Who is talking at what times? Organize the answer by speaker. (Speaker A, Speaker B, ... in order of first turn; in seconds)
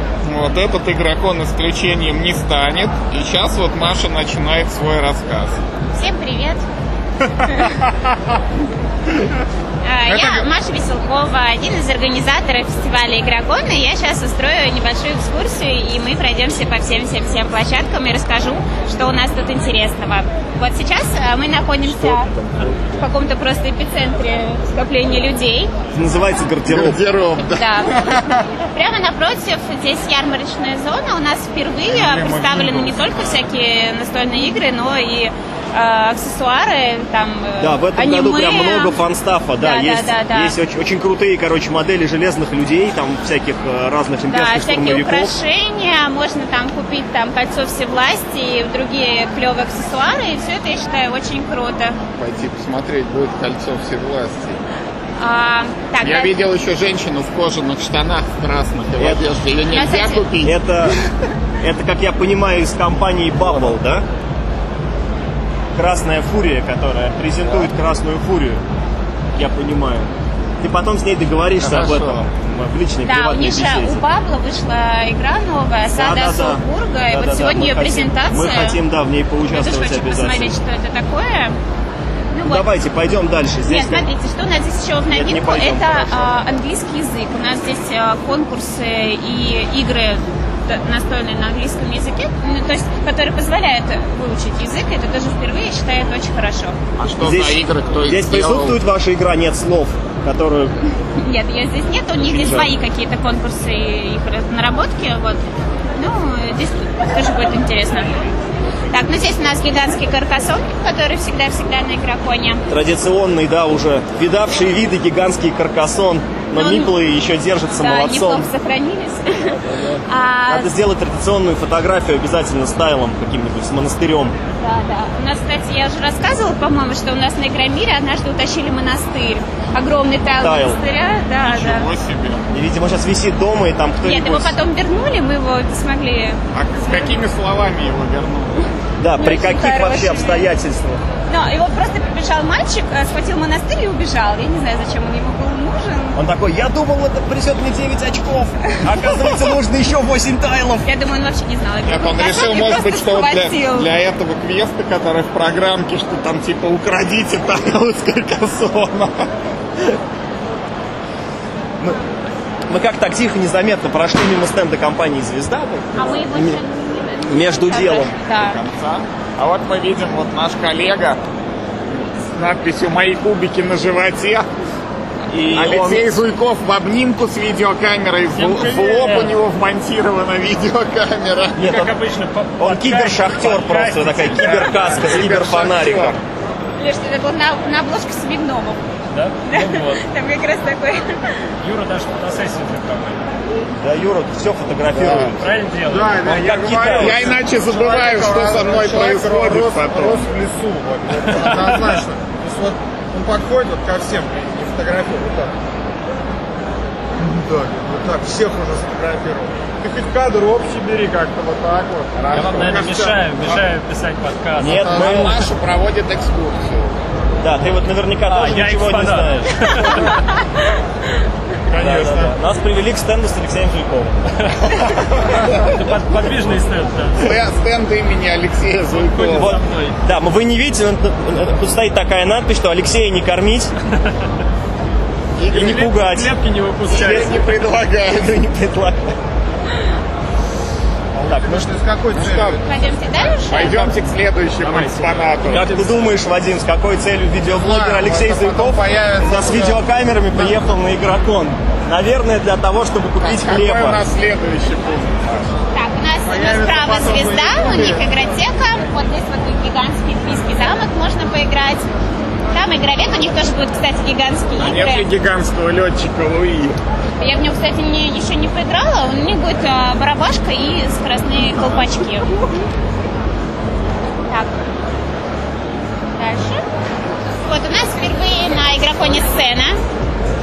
Speaker A: 0.2-5.6, 10.1-10.4, 26.7-28.4, 31.9-33.0, 52.2-54.6, 56.0-61.0, 71.6-72.2, 97.0-98.8, 131.4-132.5, 136.5-138.7, 151.9-159.3, 168.3-171.2, 171.9-174.4, 175.5-181.7, 184.9-186.2, 196.7-200.3, 212.1-213.6, 214.8-217.0, 227.2-229.6, 235.4-236.0, 236.9-238.4, 242.1-242.6, 243.4-245.7, 253.2-255.5, 264.6-266.8
Speaker B: 5.9-6.6, 7.4-7.8, 9.8-22.3, 23.0-25.7, 27.4-28.2, 28.7-39.0, 39.6-40.6, 44.2-52.0, 55.2-56.3, 59.7-60.2, 73.0-78.8, 79.5-81.6, 82.3-82.7, 83.7-96.8, 101.1-105.4, 105.9-108.3, 108.9-112.6, 116.5-117.0, 117.7-120.7, 124.6-131.9, 134.0-137.2, 139.1-140.5, 141.3-146.2, 148.9-149.3, 150.8-153.9, 165.9-168.6, 186.8-188.8, 189.4-191.5, 242.6-243.9, 255.7-261.9, 262.5-265.1, 267.2-272.3, 274.3-274.6, 276.1-276.6, 277.4-279.8
Speaker C: 25.9-27.0, 37.6-45.3, 59.0-59.3, 60.4-61.0, 61.6-64.0, 65.7-68.6, 69.3-70.1, 70.6-74.0, 75.9-80.5, 82.4-84.1, 85.1-86.3, 97.2-100.8, 102.2-102.7, 112.7-118.5, 120.5-124.3, 130.4-130.8, 132.5-134.6, 139.0-141.0, 146.1-150.9, 162.7-166.6, 167.2-168.1, 175.3-176.2, 181.6-181.9, 182.6-186.2, 193.7-195.5, 196.2-197.4, 214.6-215.4, 217.4-219.6, 221.7-224.7, 229.3-233.7, 235.5-236.3, 236.9-237.6, 238.1-239.0, 241.3-241.7, 245.4-254.0
Speaker D: 178.3-179.3, 181.6-185.1, 189.1-190.1, 191.6-193.2, 195.3-197.2, 201.2-202.0, 212.3-214.9, 218.3-220.2, 221.7-222.3, 225.3-227.2, 229.1-229.9, 235.5-237.3, 244.6-246.1
Speaker E: 194.9-195.3, 195.8-205.5, 207.2-212.2, 214.7-215.3, 241.1-242.7, 247.4-249.8, 250.3-250.6, 256.2-258.1